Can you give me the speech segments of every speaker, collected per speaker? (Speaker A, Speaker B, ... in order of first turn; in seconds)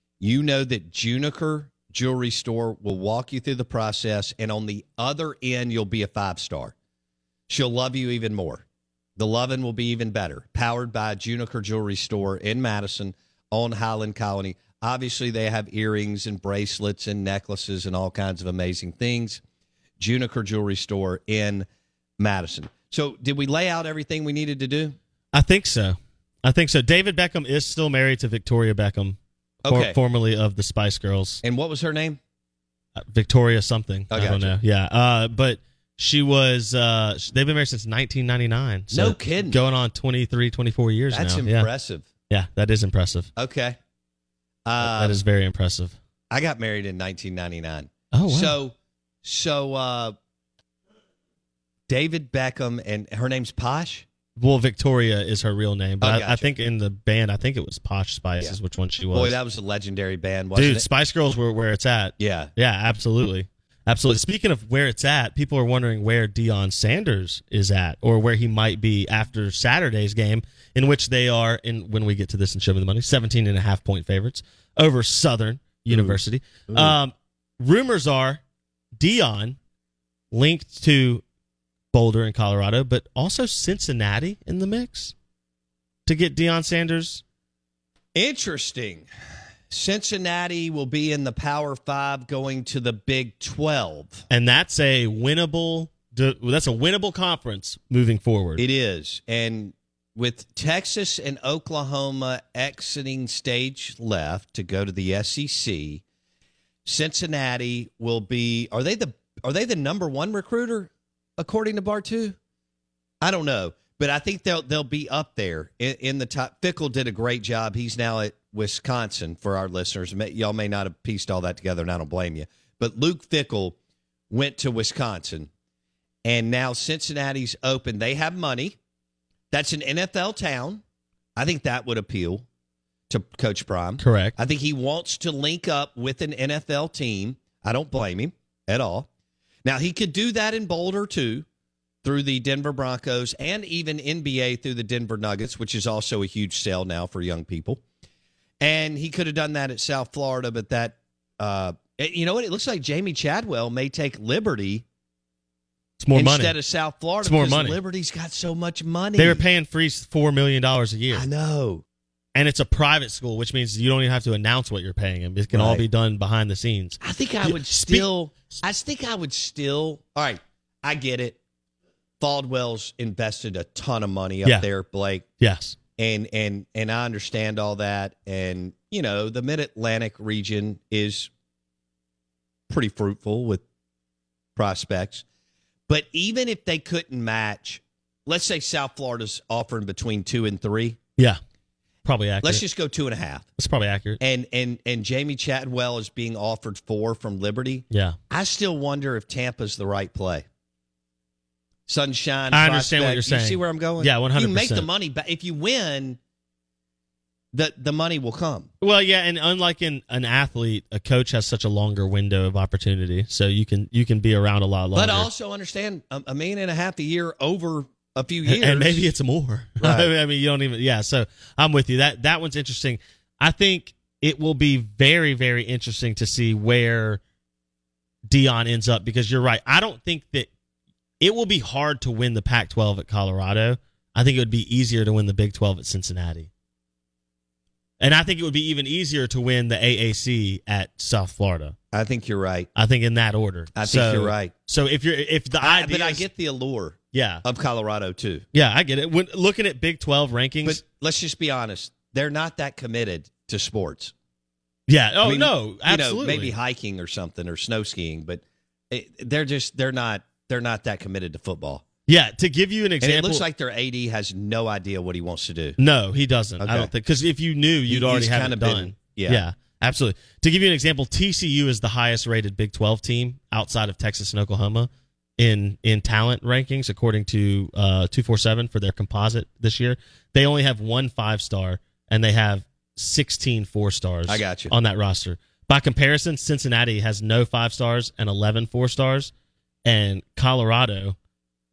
Speaker A: 0.2-6.7, 7.5-8.6, 9.2-19.4, 20.0-21.7, 22.2-25.0, 29.6-30.0, 31.4-32.2, 34.1-34.5, 38.9-39.6, 41.1-42.1, 43.4-43.8, 44.6-45.2, 46.3-50.1, 51.9-54.0, 56.0-56.5, 59.1-60.9, 62.2-62.5, 75.9-77.0, 88.1-89.1, 89.7-94.2, 98.6-106.0, 106.8-112.4, 113.2-123.8, 124.3-125.5, 126.2-128.8, 129.5-130.8, 131.3-132.4, 133.1-139.1, 139.6-141.4, 142.0-147.8, 148.6-154.8, 156.1-159.4, 161.1-161.8, 165.5-165.8, 167.0-171.4, 172.2-175.2, 176.0-181.3, 182.7-183.6, 184.6-185.2, 185.9-191.0, 192.4-193.4, 194.2-200.4, 201.9-206.2, 207.5-208.7, 214.9-219.1, 219.8-220.1, 241.9-242.7, 243.7-244.5, 245.6-248.4, 250.6-254.1, 255.2-261.8, 263.0-265.8, 266.6-266.9, 267.9-269.4, 284.3-284.7
Speaker B: 25.3-31.4, 33.0-41.7, 42.3-43.3, 44.8-45.9, 48.1-48.5, 54.4-59.4, 60.5-78.4, 79.0-79.6, 80.3-81.2, 81.9-85.1, 86.0-87.2, 94.3-98.6, 134.0-134.3, 156.0-156.5, 157.2-157.8, 159.2-161.2, 162.3-168.1, 175.4-175.8, 192.0-192.6, 193.6-194.2, 197.9-198.2, 202.5-204.9, 208.8-215.3, 218.4-227.2, 228.3-230.5, 231.2-236.5, 238.0-241.7, 242.8-246.2, 247.1-247.4, 248.5-250.8, 254.9-256.5, 262.1-263.4, 265.8-289.3, 289.8-291.1